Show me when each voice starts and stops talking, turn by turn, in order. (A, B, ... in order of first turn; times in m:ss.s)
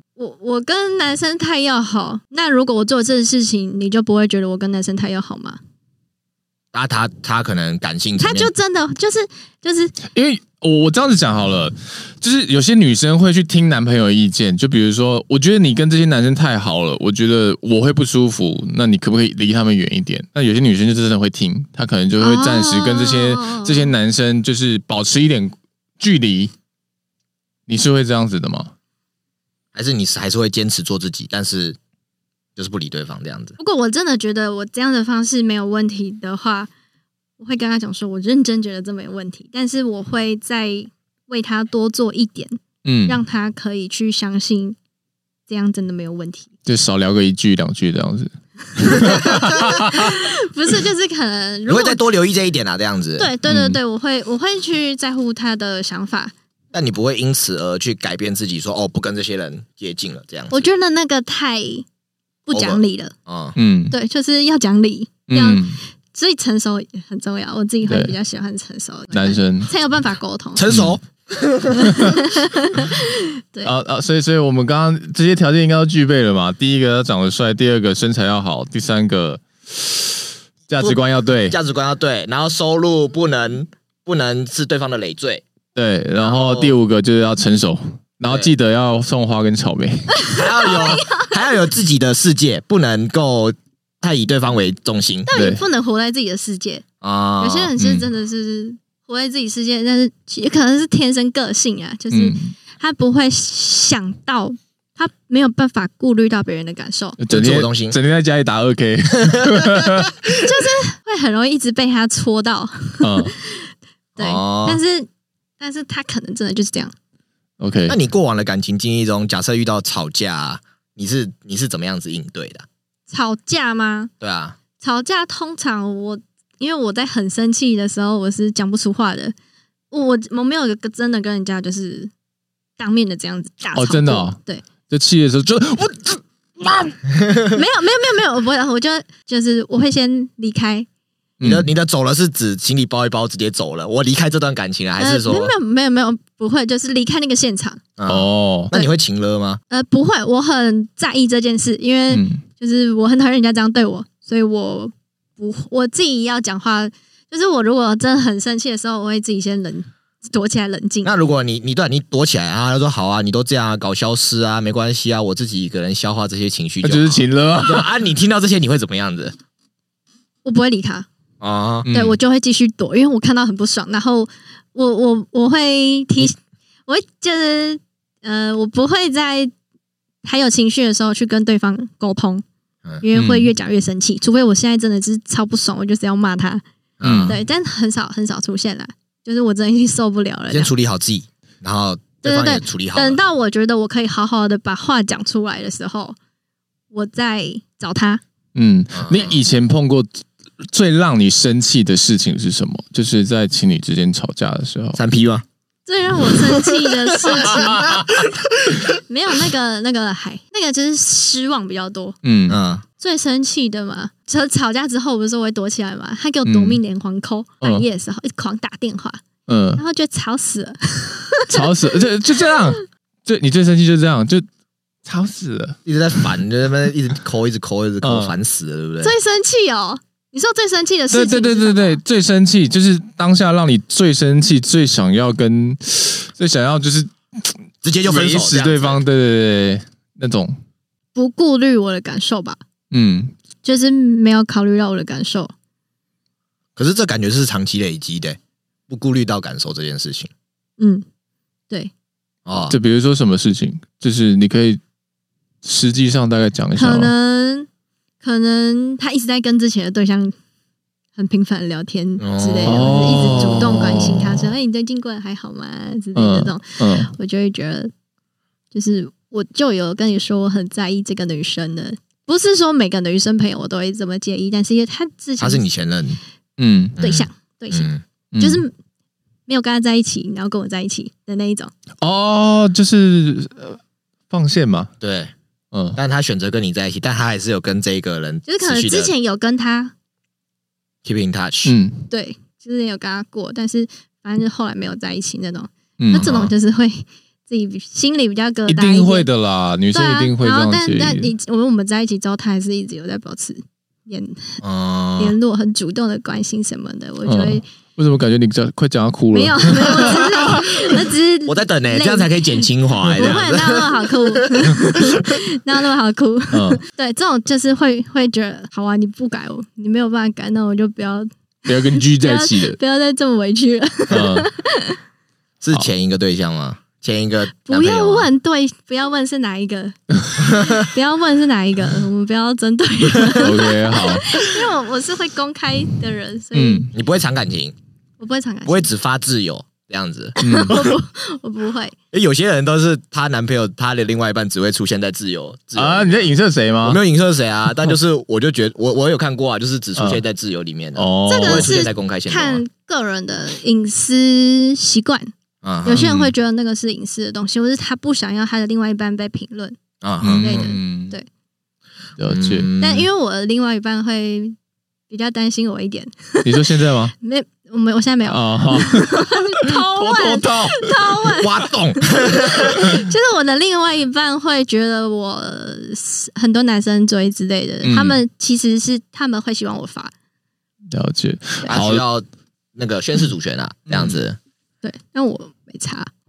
0:00.2-0:05.6 A
0:06.7-0:08.5 B
0:08.2-0:10.0 A
0:10.1-0:26.5 C
0:22.2-0:23.9 A
0:27.7-0:28.7 C
0:29.7-0:31.8 B
0:32.6-0:33.6 B
0:33.6-0:36.7 A
0:37.4-0:44.8 A
0:42.8-0:43.2 C
0:45.5-0:46.5 A
0:46.6-0:50.2 C
0:48.8-0:52.0 A
0:49.1-0:49.6 B
0:51.7-0:53.3 B
0:53.2-0:56.3 A
0:53.4-0:53.8 C
0:56.7-1:00.6 B
1:00.5-1:01.8 A
1:02.5-1:03.1 A
1:02.5-1:03.6 B
1:03.6-1:04.0 C
1:03.9-1:10.6 A
1:05.3-1:05.8 C
1:07.8-1:08.1 C
1:09.1-1:09.7 C
1:10.6-1:12.2 B
1:10.7-1:10.9 C
1:11.8-1:13.7 A
1:11.9-1:12.1 C
1:13.6-1:21.6 C
1:20.8-1:25.4 B
1:25.7-1:30.2 C
1:26.2-1:26.8 B
1:28.3-1:28.5 B
1:30.1-1:31.4 A
1:30.3-1:35.3 B
1:35.3-1:36.8 A
1:35.3-1:35.6 C
1:37.0-1:37.7 B
1:37.4-1:47.2 A
1:37.8-1:38.1 C
1:42.1-1:42.5 C
1:47.2-1:50.3 C
1:47.3-1:48.0 B
1:50.3-1:55.1 A
1:53.0-1:53.3 C
1:54.2-1:54.8 B
1:55.6-1:56.9 A
1:57.6-1:58.0 C
1:57.9-2:02.6 B
2:03.1-2:04.1 A
2:04.2-2:04.6 B
2:04.8-2:09.3 A
2:09.9-2:12.1 A
2:12.8-2:14.6 A
2:13.7-2:14.4 C
2:14.9-2:16.9 C
2:17.4-2:20.9 A
2:21.4-2:21.7 C
2:21.4-2:25.5 B
2:25.0-2:27.8 A
2:28.0-2:29.6 B
2:28.1-2:28.7 C
2:29.7-2:41.1 A
2:32.1-2:32.4 C
2:41.0-2:49.3 B
2:46.8-2:47.9 C
2:50.4-2:51.1 A
2:51.4-2:51.9 B
2:51.8-2:52.2 C
2:51.9-2:56.3 A
2:56.9-2:59.5 A
3:00.2-3:02.4 A
3:03.0-3:06.6 A
3:03.1-3:03.5 C
3:07.0-3:07.4 B
3:07.0-3:07.4 C
3:07.2-3:10.7 A
3:10.5-3:13.2 B
3:12.2-3:16.2 A
3:16.9-3:18.2 A
3:18.5-3:25.0 C
3:18.9-3:19.4 B
3:25.0-3:25.4 B
3:25.8-3:27.9 A
3:27.4-3:28.0 C
3:27.5-3:28.7 B
3:29.1-3:32.2 A
3:32.2-3:32.6 C
3:32.5-3:32.8 B
3:33.0-3:39.2 A
3:36.4-3:36.8 C
3:39.5-3:39.8 C
3:39.8-3:42.7 A
3:41.5-3:44.5 C
3:45.0-3:46.3 C
3:45.8-3:49.1 B
3:48.0-3:48.3 C
3:49.0-3:52.0 A
3:51.1-4:00.6 C
3:57.8-3:59.0 B
4:01.1-4:02.6 A
4:02.9-4:03.4 C
4:03.6-4:05.5 A
4:06.8-4:08.4 B
4:08.9-4:10.3 B
4:10.8-4:11.0 A
4:12.4-4:12.8 B
4:12.7-4:14.8 C
4:15.6-4:17.1 C
4:16.8-4:17.7 A
4:18.2-4:20.3 A
4:21.2-4:27.9 A
4:22.2-4:23.6 B
4:22.6-4:24.5 C
4:26.1-4:27.1 C
4:28.7-4:35.6 A
4:35.4-4:36.2 B
4:36.6-4:37.0 C
4:37.0-4:38.0 B
4:37.0-4:38.7 A
4:38.3-4:38.6 C
4:39.5-4:41.7 A
4:42.0-4:44.9 C
4:45.0-4:45.3 B
4:45.7-4:46.0 C
4:45.9-4:49.1 B
4:48.4-4:49.9 A
4:51.0-4:51.7 B
4:51.6-4:52.1 C
4:52.1-4:59.3 A
4:56.0-4:56.3 C
4:56.1-4:56.5 B
4:58.7-5:01.3 C
4:59.9-5:04.6 A
5:04.6-5:05.4 B
5:05.2-5:07.6 A
5:07.2-5:10.9 C
5:09.3-5:25.0 A
5:11.4-5:15.2 B
5:16.5-5:16.8 C
5:21.6-5:22.8 C
5:24.1-5:24.5 C
5:25.6-5:28.3 B
5:27.7-5:36.9 A
5:30.4-5:30.7 B
5:33.3-5:34.4 C
5:36.5-5:36.9 C
5:36.9-5:37.7 B
5:38.2-5:38.9 A
5:38.6-5:40.8 B
5:40.4-5:41.9 A
5:40.4-5:40.8 C
5:42.1-5:46.3 B
5:45.8-5:47.0 C
5:46.8-5:52.6 B
5:50.0-5:50.2 C
5:51.0-5:51.7 C
5:51.3-5:55.3 A
5:55.6-5:56.2 B
5:55.8-5:59.8 A
5:55.9-5:56.3 C
6:00.0-6:00.7 B
6:00.2-6:01.2 C
6:00.4-6:01.3 A
6:02.2-6:02.7 C
6:02.3-6:03.0 B
6:02.8-6:04.6 A
6:05.1-6:06.7 A
6:06.4-6:07.1 C
6:07.2-6:20.1 A
6:08.3-6:11.0 C
6:11.4-6:13.0 B
6:17.8-6:18.2 C
6:20.9-6:22.0 C
6:21.6-6:24.4 B
6:23.9-6:24.2 C
6:24.8-6:26.1 A